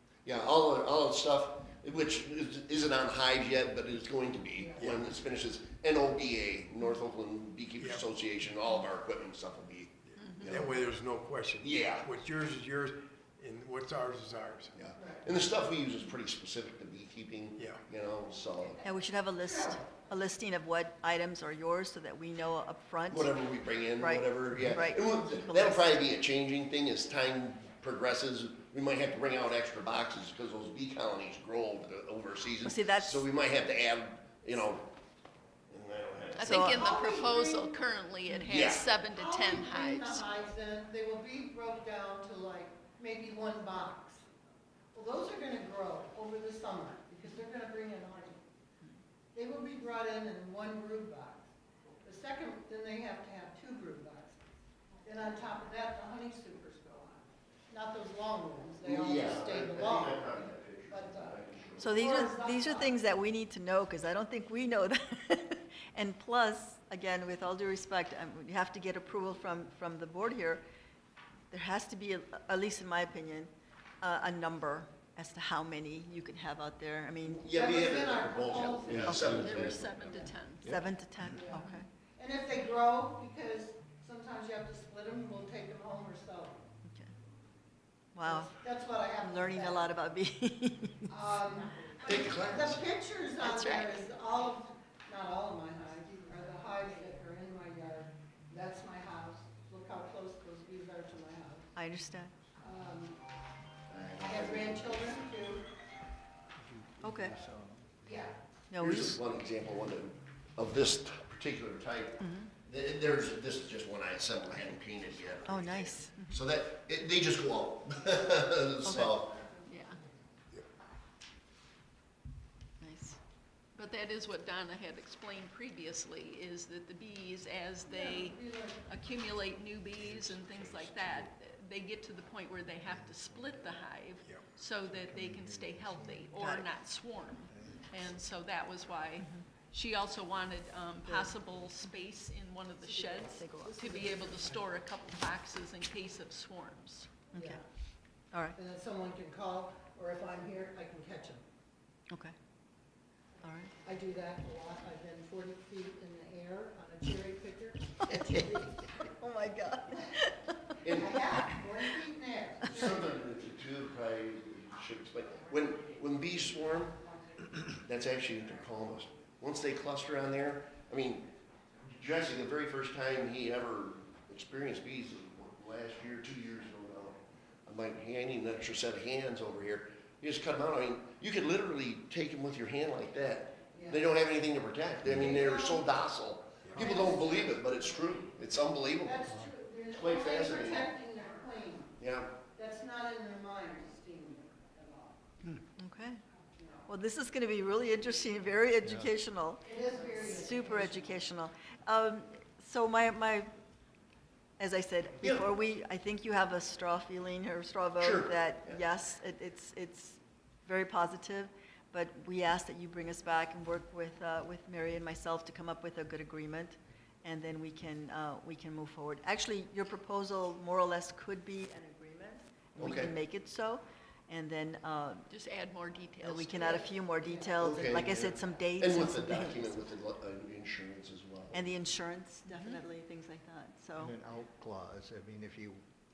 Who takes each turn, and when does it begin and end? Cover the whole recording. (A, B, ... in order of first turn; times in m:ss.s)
0:00.2-0:10.6 A
0:04.6-0:04.9 B
0:04.8-0:05.1 C
0:07.8-0:08.1 C
0:10.0-0:14.8 C
0:10.2-0:10.6 D
0:11.6-0:12.1 A
0:14.8-0:18.8 A
0:17.6-0:17.8 C
0:18.8-0:26.0 E
0:19.6-0:20.0 B
0:23.1-0:34.9 A
0:32.6-0:33.3 E
0:35.7-0:36.8 A
0:36.4-0:40.3 D
0:36.4-0:37.8 B
0:38.3-0:38.5 E
0:38.5-0:38.8 A
0:39.1-0:44.2 B
0:44.9-0:48.4 B
0:49.3-0:51.5 B
0:52.0-0:54.4 B
0:55.0-1:02.9 B
0:58.8-1:01.9 A
1:01.8-1:10.6 E
1:11.5-1:17.5 E
1:17.2-1:19.8 A
1:17.5-1:20.4 B
1:19.1-1:19.8 E
1:19.1-1:20.7 D
1:20.6-1:21.9 E
1:21.4-1:26.6 B
1:26.8-1:27.1 E
1:28.2-1:28.6 E
1:28.3-1:29.9 B
1:29.2-1:31.2 E
1:31.1-1:41.7 B
1:32.0-1:32.8 A
1:33.5-1:33.8 D
1:33.6-1:33.9 E
1:41.8-1:42.4 E
1:42.6-1:43.2 B
1:43.9-1:45.2 A
1:44.2-1:45.7 B
1:46.6-1:48.0 F
1:47.0-1:47.4 E
1:48.0-1:48.3 B
1:48.7-1:49.2 E
1:48.8-1:59.4 A
1:52.2-1:52.5 E
1:55.4-1:56.4 E
1:58.8-1:59.2 E
1:59.6-2:00.0 D
2:02.8-2:03.2 E
2:03.8-2:27.1 D
2:07.9-2:08.9 B
2:10.0-2:11.3 F
2:12.8-2:13.6 F
2:14.8-2:16.3 F
2:16.4-2:16.7 E
2:17.5-2:18.0 F
2:19.2-2:19.5 E
2:21.0-2:21.4 E
2:23.3-2:24.0 E
2:23.9-2:24.4 B
2:27.3-2:27.6 E
2:27.3-2:27.6 B
2:28.3-2:28.6 E
2:28.6-2:31.4 B
2:32.1-2:32.4 E
2:33.4-2:33.7 E
2:33.8-2:38.8 B
2:38.8-2:42.0 E
2:40.8-2:41.2 A
2:40.9-2:43.0 B
2:42.7-2:47.0 A
2:47.6-2:51.3 A
2:51.9-3:09.3 A
3:03.7-3:04.1 B
3:05.1-3:05.9 B
3:06.6-3:06.9 C
3:06.8-3:07.5 B
3:09.0-3:12.0 B
3:09.9-3:10.9 A
3:12.0-3:12.4 A
3:12.5-3:15.2 B
3:15.8-3:16.2 E
3:16.6-3:16.9 B
3:16.9-3:23.5 E
3:18.8-3:19.2 F
3:19.6-3:21.2 B
3:24.6-3:45.3 E
3:25.2-3:25.5 A
3:28.0-3:28.8 A
3:42.8-3:43.1 A
3:45.3-3:46.8 D
3:46.2-3:49.8 E
3:46.6-3:47.5 B
3:47.6-3:51.6 A
3:51.5-3:54.2 E
3:52.5-3:52.8 D
3:54.0-3:55.8 F